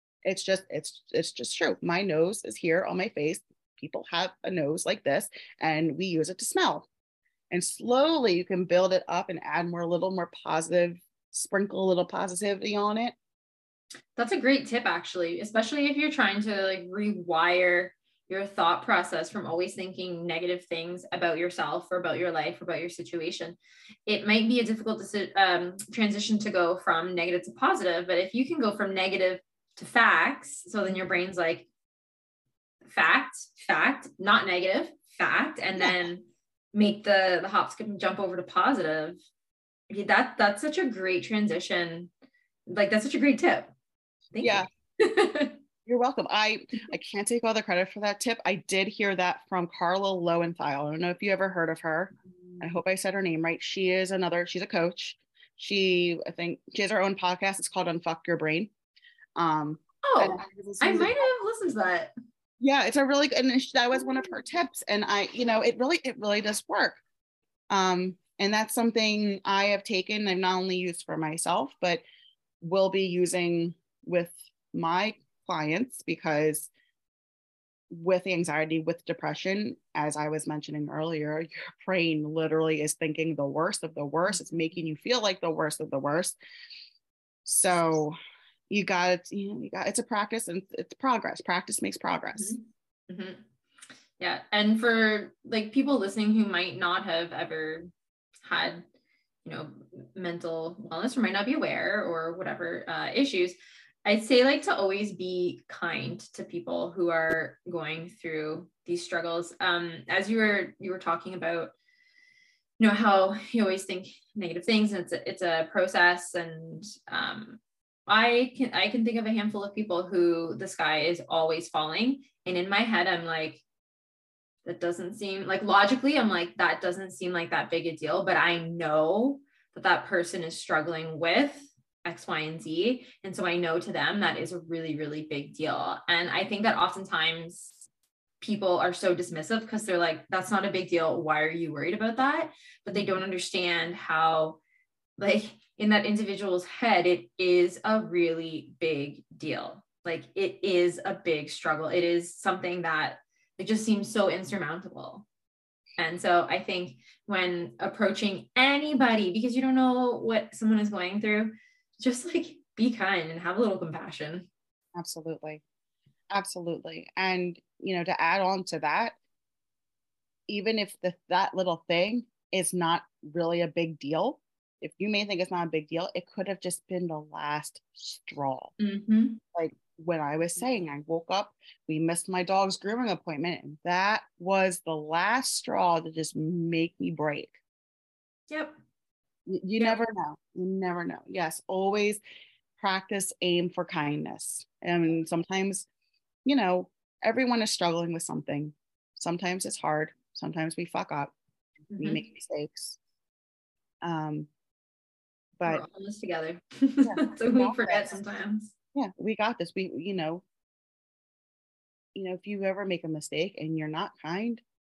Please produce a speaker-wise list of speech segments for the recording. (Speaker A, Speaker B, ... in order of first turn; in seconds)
Speaker A: 0.2-6.9, 7.5-13.2, 35.8-36.0, 44.4-44.6, 45.9-58.7, 59.4-61.3, 62.6-67.0, 67.7-72.0, 72.6-76.7, 77.9-86.4, 87.4-88.1, 88.7-92.5, 142.9-143.2, 164.9-165.6, 166.3-169.1, 170.5-178.7, 179.5-187.6, 189.5-192.2, 192.8-195.9, 196.4-201.3, 202.0-203.0, 204.0-204.5, 205.6-205.8, 207.0-208.3, 208.9-210.4, 212.1-214.6
Speaker B: 14.2-31.6, 32.9-39.2, 39.9-42.1, 42.7-43.7, 44.3-45.5, 60.0-62.1, 84.3-84.6, 92.3-93.4, 94.2-97.9, 98.4-98.8, 99.4-111.7, 112.8-123.6, 124.6-137.8, 138.4-144.6, 145.2-155.2, 156.0-164.5, 178.8-179.4, 188.5-188.7, 201.9-202.2, 205.7-208.7